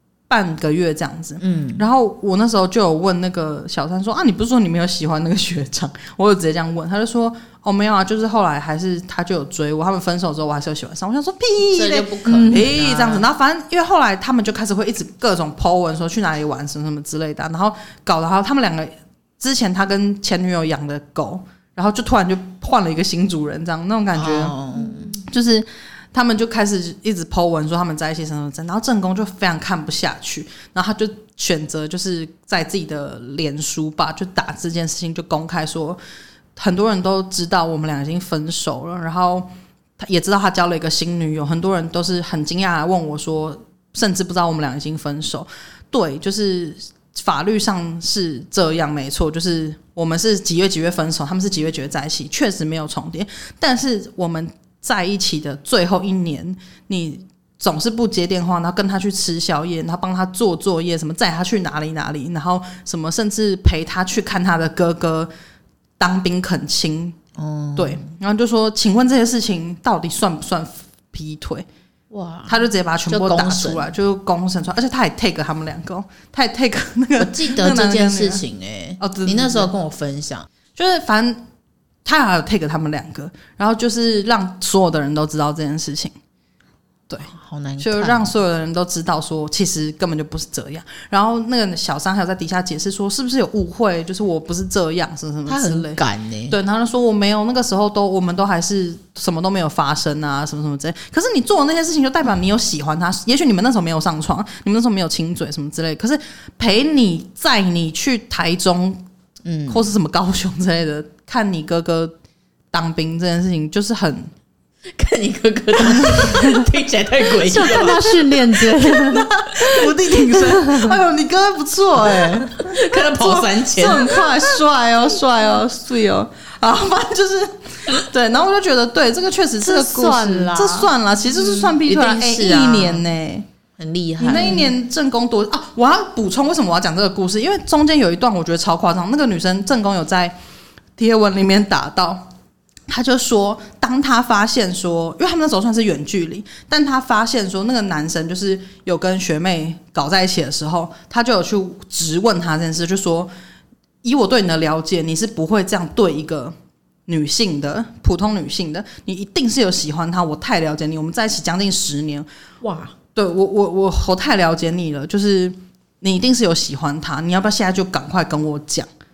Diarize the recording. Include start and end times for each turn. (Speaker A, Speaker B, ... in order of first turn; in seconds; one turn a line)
Speaker A: 0.3-24.6
Speaker B: 1.4-1.9
Speaker B: 11.6-13.3
Speaker C: 12.2-12.7
Speaker B: 24.1-25.2
Speaker A: 25.2-36.0
Speaker A: 36.5-65.3
Speaker A: 66.0-67.2
Speaker B: 67.4-68.0
Speaker A: 67.8-71.7
Speaker B: 72.1-73.9
Speaker A: 72.5-78.4
Speaker B: 77.2-80.5
Speaker A: 79.0-79.7
Speaker A: 80.8-81.4
Speaker A: 82.0-86.1
Speaker A: 87.1-109.0
Speaker B: 87.3-88.3
Speaker B: 95.5-96.6
Speaker B: 109.4-109.9
Speaker A: 109.7-112.2
Speaker A: 112.7-114.3
Speaker B: 114.9-118.3
Speaker C: 116.0-116.6
Speaker C: 117.3-121.0
Speaker A: 117.7-117.9
Speaker A: 118.8-133.4
Speaker B: 122.0-124.2
Speaker C: 129.6-130.9
Speaker B: 131.7-133.1
Speaker B: 133.8-134.7
Speaker A: 134.2-140.3
Speaker C: 134.3-134.7
Speaker A: 141.0-142.3
Speaker A: 142.9-153.3
Speaker A: 154.0-156.5
Speaker A: 157.1-162.3
Speaker B: 162.6-162.9
Speaker A: 163.1-168.9